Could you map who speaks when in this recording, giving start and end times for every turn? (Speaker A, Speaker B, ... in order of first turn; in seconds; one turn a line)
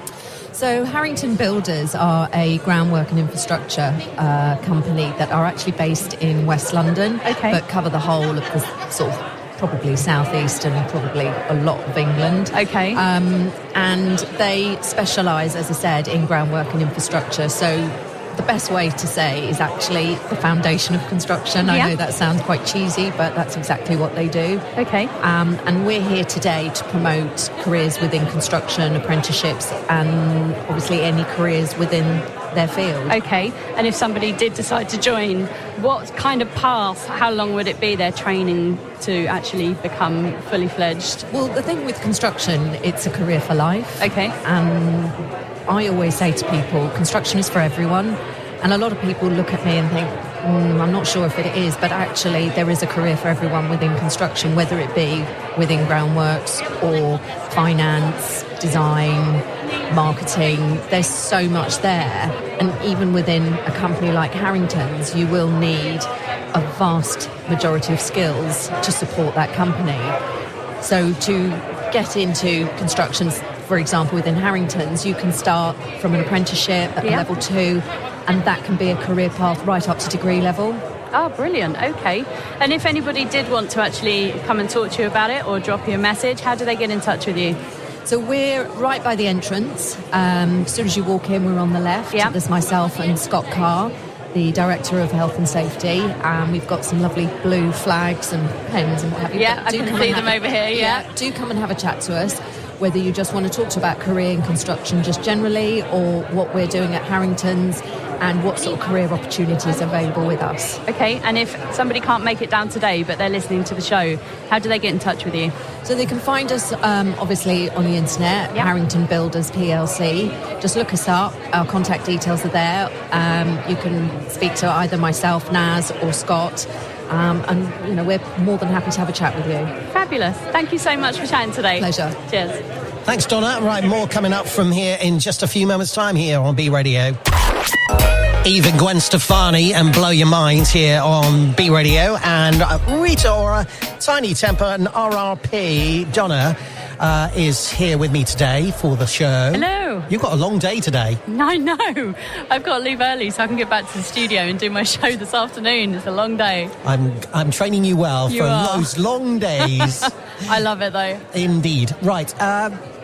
Speaker A: 0.5-24.6
Speaker B: 7.2-7.6
Speaker B: 12.5-13.0
Speaker B: 21.6-21.9
Speaker B: 24.8-25.1
Speaker A: 25.2-33.2
Speaker B: 33.1-41.2
Speaker A: 41.3-70.2
Speaker B: 44.0-44.3
Speaker A: 70.8-80.8
Speaker B: 81.1-87.6
Speaker A: 88.0-110.8
Speaker B: 99.3-101.0
Speaker B: 110.8-115.5
Speaker A: 115.8-129.7
Speaker B: 129.9-132.6
Speaker A: 131.8-132.2
Speaker C: 133.1-137.2
Speaker C: 138.4-151.2
Speaker B: 149.5-150.1
Speaker B: 151.3-156.7
Speaker C: 156.8-160.1
Speaker B: 158.3-158.9
Speaker B: 159.7-161.2
Speaker C: 161.3-162.8